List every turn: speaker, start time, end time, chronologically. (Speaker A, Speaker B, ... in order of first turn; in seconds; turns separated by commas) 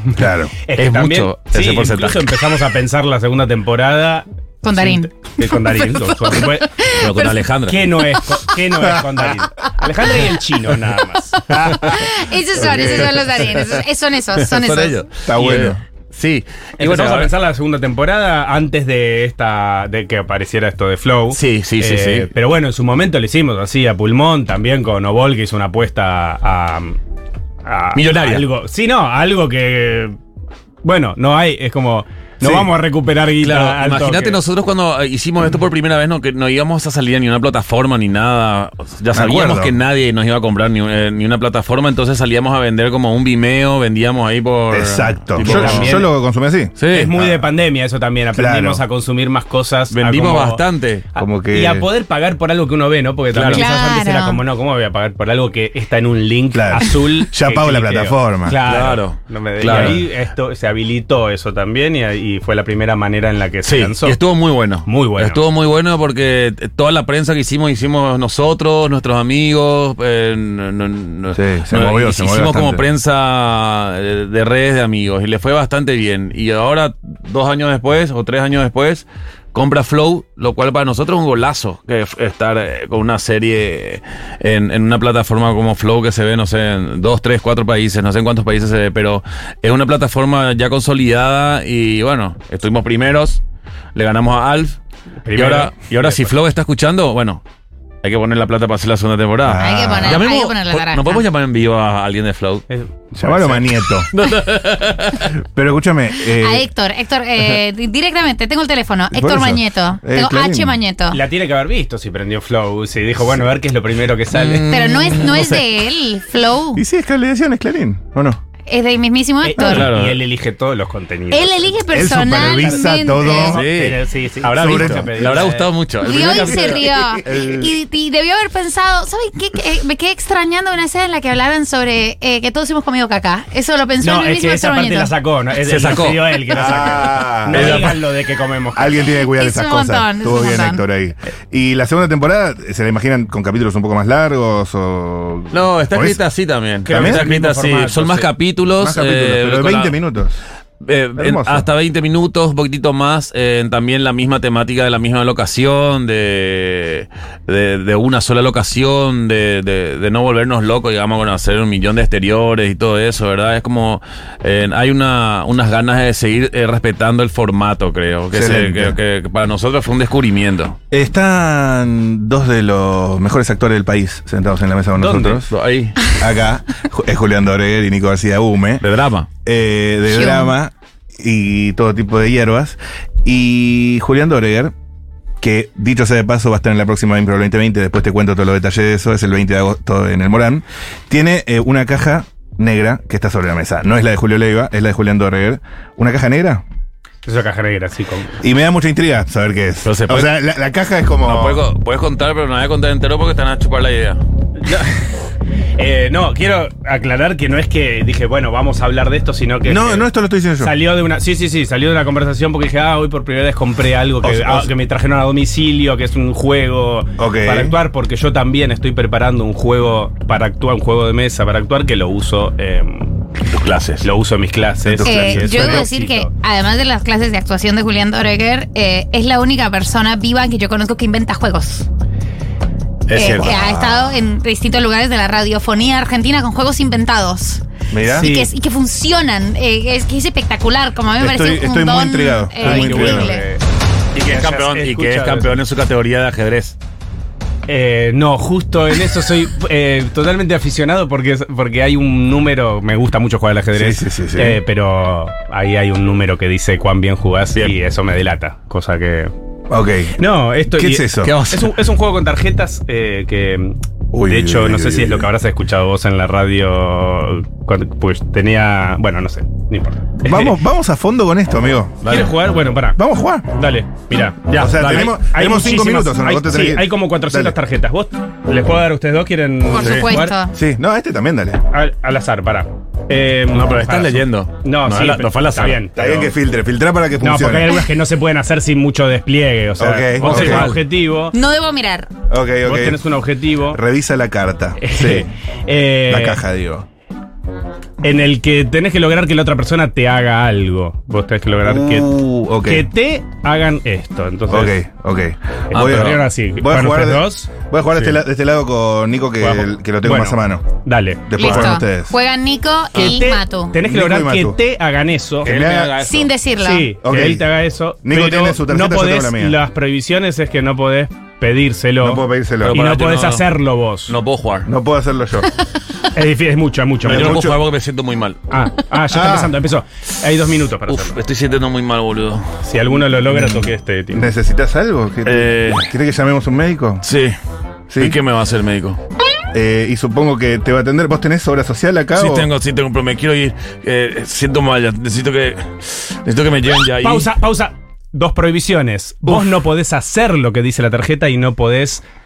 Speaker A: 0.1-0.5, Speaker B: 0.6-6.7, Speaker C: 0.8-2.3, Speaker D: 4.6-5.1, Speaker D: 6.0-7.4, Speaker C: 6.9-7.9, Speaker B: 7.7-11.4, Speaker A: 8.8-9.2, Speaker D: 11.3-15.0, Speaker A: 11.5-11.9, Speaker A: 12.6-13.3, Speaker C: 12.6-13.8, Speaker C: 14.3-17.3, Speaker A: 15.2-15.8, Speaker B: 16.8-27.0, Speaker C: 21.3-22.3, Speaker B: 27.6-30.2, Speaker C: 27.9-28.4, Speaker B: 30.8-34.4, Speaker C: 33.4-46.0, Speaker A: 39.1-39.8, Speaker A: 44.7-47.5, Speaker B: 45.4-46.1, Speaker C: 46.8-47.1, Speaker B: 46.9-64.2, Speaker A: 48.3-48.8, Speaker C: 49.9-51.0, Speaker A: 51.1-51.9, Speaker C: 53.3-53.7, Speaker D: 53.5-54.4, Speaker A: 56.5-58.6, Speaker C: 58.6-60.0, Speaker A: 59.7-60.0, Speaker C: 63.6-93.4, Speaker B: 64.8-65.4, Speaker A: 71.3-72.8, Speaker C: 93.9-94.8, Speaker B: 95.2-96.3, Speaker C: 95.3-97.4, Speaker C: 98.0-102.6, Speaker A: 99.4-100.2, Speaker D: 99.6-101.2, Speaker B: 102.7-103.8, Speaker A: 103.1-104.1, Speaker C: 104.1-105.3, Speaker A: 105.4-106.7, Speaker D: 106.3-111.2, Speaker A: 109.1-110.8, Speaker B: 111.1-114.8, Speaker C: 114.3-115.7, Speaker D: 114.7-116.8, Speaker A: 116.7-118.4, Speaker D: 118.7-119.9, Speaker B: 119.4-126.7, Speaker A: 119.6-119.8, Speaker C: 119.7-120.2, Speaker D: 121.3-123.6, Speaker A: 121.9-123.6, Speaker C: 123.5-126.9, Speaker A: 124.5-125.4, Speaker D: 126.0-135.1, Speaker A: 126.5-127.7, Speaker B: 134.0-139.1, Speaker C: 135.7-136.4, Speaker A: 136.5-137.9, Speaker C: 137.4-138.0, Speaker A: 138.7-146.2, Speaker D: 139.3-140.8, Speaker C: 145.5-149.9, Speaker B: 146.8-148.3, Speaker A: 146.9-147.2, Speaker A: 148.8-150.4, Speaker C: 150.8-170.8, Speaker A: 151.2-151.7, Speaker A: 168.3-168.9, Speaker A: 170.9-175.5, Speaker C: 174.9-176.0, Speaker A: 176.1-178.8, Speaker C: 178.8-179.3, Speaker A: 179.4-184.7, Speaker D: 180.1-180.5, Speaker A: 185.4-196.6, Speaker B: 197.2-198.4, Speaker A: 198.4-201.7, Speaker C: 199.8-200.3, Speaker C: 201.2-204.2, Speaker B: 204.6-205.1, Speaker B: 205.8-223.1, Speaker A: 209.6-210.7, Speaker A: 214.2-214.7, Speaker A: 217.2-217.8, Speaker C: 223.5-224.0, Speaker B: 224.0-226.3, Speaker A: 224.8-225.9, Speaker D: 225.1-231.9, Speaker C: 233.1-233.5, Speaker D: 233.1-243.4, Speaker A: 233.2-234.2, Speaker A: 237.9-238.3, Speaker B: 238.1-238.5, Speaker A: 241.2-243.3, Speaker B: 242.6-243.6, Speaker C: 244.1-246.8, Speaker B: 244.2-245.6, Speaker B: 247.7-259.3, Speaker A: 253.7-254.6, Speaker A: 259.7-260.2, Speaker B: 260.2-270.6, Speaker A: 260.7-261.4, Speaker C: 261.2-261.7, Speaker A: 264.1-265.3, Speaker A: 270.2-272.0, Speaker C: 272.0-272.3, Speaker B: 272.0-280.4, Speaker A: 273.0-273.4, Speaker C: 274.5-274.8, Speaker A: 274.6-277.6, Speaker D: 279.7-280.5, Speaker C: 279.8-280.1, Speaker A: 280.5-281.6, Speaker B: 281.7-286.3, Speaker C: 283.5-285.9, Speaker A: 285.9-287.8, Speaker B: 287.2-291.4, Speaker A: 289.8-290.7, Speaker C: 290.2-290.8, Speaker D: 291.3-292.1, Speaker A: 292.3-293.0, Speaker B: 292.6-293.8, Speaker A: 293.7-295.3, Speaker B: 294.8-296.4, Speaker A: 296.1-296.9, Speaker B: 298.0-304.8, Speaker A: 301.6-302.9, Speaker A: 304.5-310.6, Speaker C: 305.7-306.2, Speaker B: 305.7-307.5, Speaker B: 309.4-311.8, Speaker A: 311.3-312.1, Speaker D: 311.4-313.8, Speaker B: 312.9-315.5, Speaker A: 313.8-314.6, Speaker A: 315.4-316.0, Speaker C: 315.4-316.3, Speaker D: 316.0-316.9, Speaker B: 316.6-324.1, Speaker A: 317.0-317.4, Speaker A: 318.0-319.6, Speaker A: 322.0-322.8, Speaker C: 322.6-323.5, Speaker C: 324.1-324.7, Speaker A: 324.6-325.5, Speaker B: 326.1-327.4, Speaker C: 327.0-328.4, Speaker A: 327.0-327.6, Speaker B: 328.5-331.1, Speaker A: 329.1-329.6, Speaker C: 330.9-332.4, Speaker B: 332.6-334.3, Speaker A: 334.1-337.0, Speaker C: 335.2-335.9, Speaker C: 337.0-337.3, Speaker A: 337.9-338.2, Speaker C: 337.9-339.0, Speaker A: 339.5-342.5, Speaker C: 342.1-347.3, Speaker B: 347.0-352.0, Speaker A: 349.2-349.5